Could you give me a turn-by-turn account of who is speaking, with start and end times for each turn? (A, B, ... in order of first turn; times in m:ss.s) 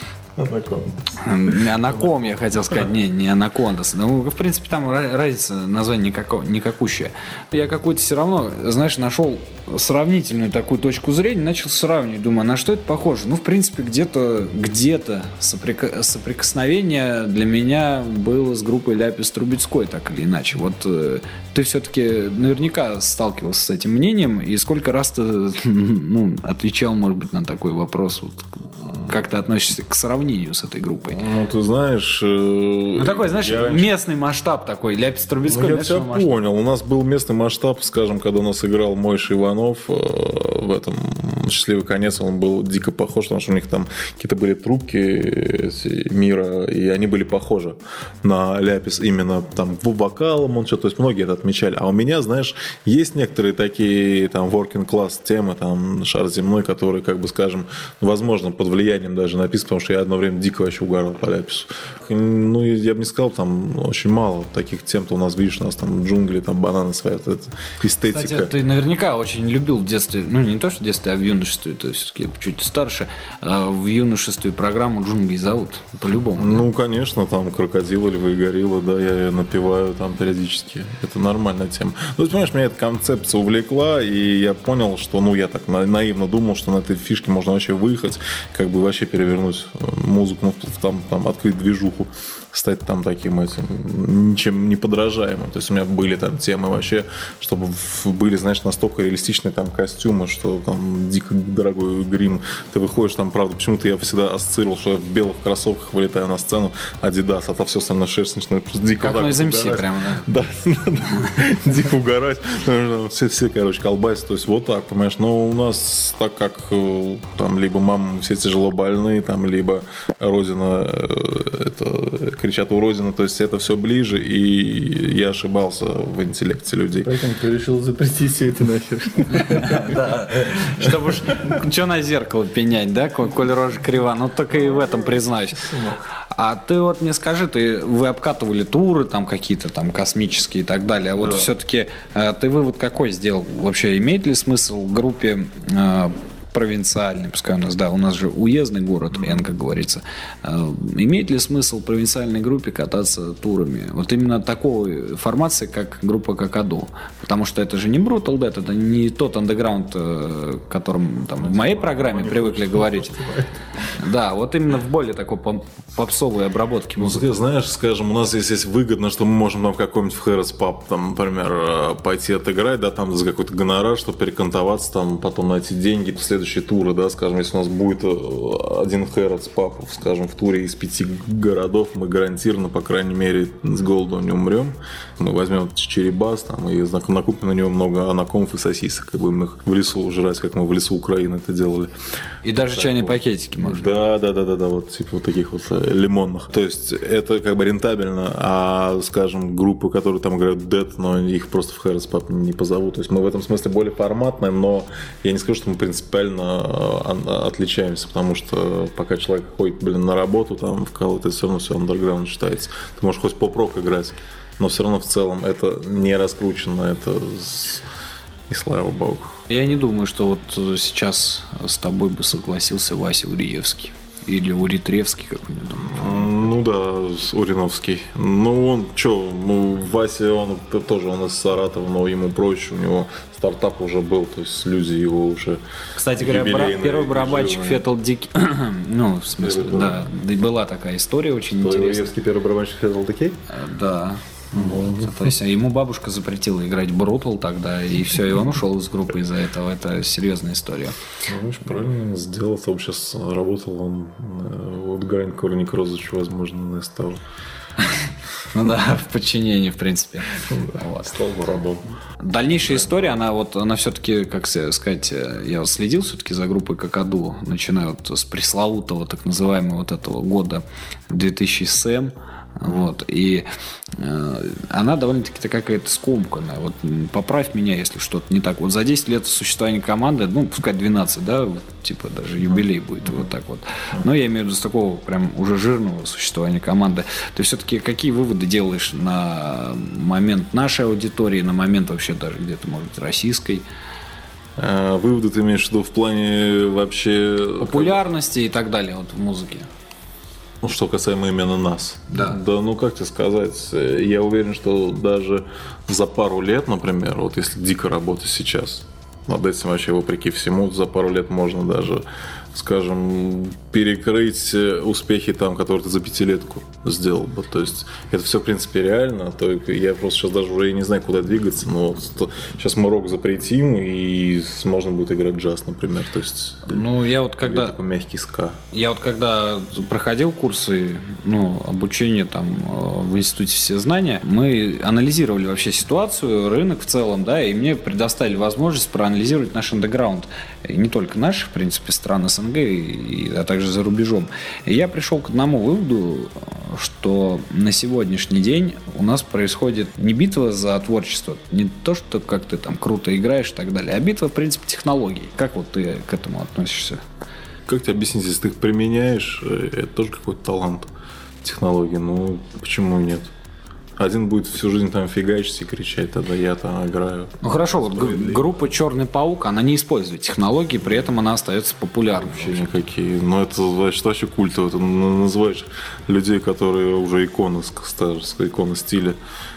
0:00.4-0:01.0 A
0:01.2-0:31.2 B
0:31.1-0:33.9 A
0:33.0-0:36.3 B
0:35.5-1:08.5 A
1:08.1-1:16.7 B
1:16.4-2:07.2 A
1:49.0-1:50.2 B
2:07.0-2:10.0 C
2:09.5-2:15.6 B
2:14.6-2:16.0 C
2:16.3-2:43.1 B
2:21.2-2:21.5 A
2:29.1-2:29.5 A
2:41.4-2:43.5 A
2:44.0-2:47.2 B
2:47.0-3:11.9 A
3:12.4-3:13.9 B
3:12.5-3:37.9 A
3:38.5-3:39.4 A
3:39.5-3:46.4 B
3:45.8-3:55.6 A
3:56.0-4:02.1 B
3:56.2-3:57.9 A
3:59.4-4:00.1 A
4:01.5-4:03.4 A
4:03.5-4:11.0 B
4:04.5-4:05.4 A
4:11.3-4:17.2 A
4:18.5-4:21.2 B
4:20.5-4:21.8 A
4:22.2-4:33.5 B
4:22.6-4:23.2 A
4:34.0-4:53.7 B
4:42.4-4:43.3 A
4:54.6-4:58.0 A
4:57.6-4:59.7 B
5:00.6-5:28.6 A
5:02.1-5:02.4 B
5:26.7-5:27.8 B
5:28.7-5:57.0 B
5:57.7-6:00.9 A
6:01.4-6:03.3 A
6:04.0-6:08.5 A
6:07.4-6:12.7 B
6:10.8-6:11.1 A
6:12.2-6:19.2 A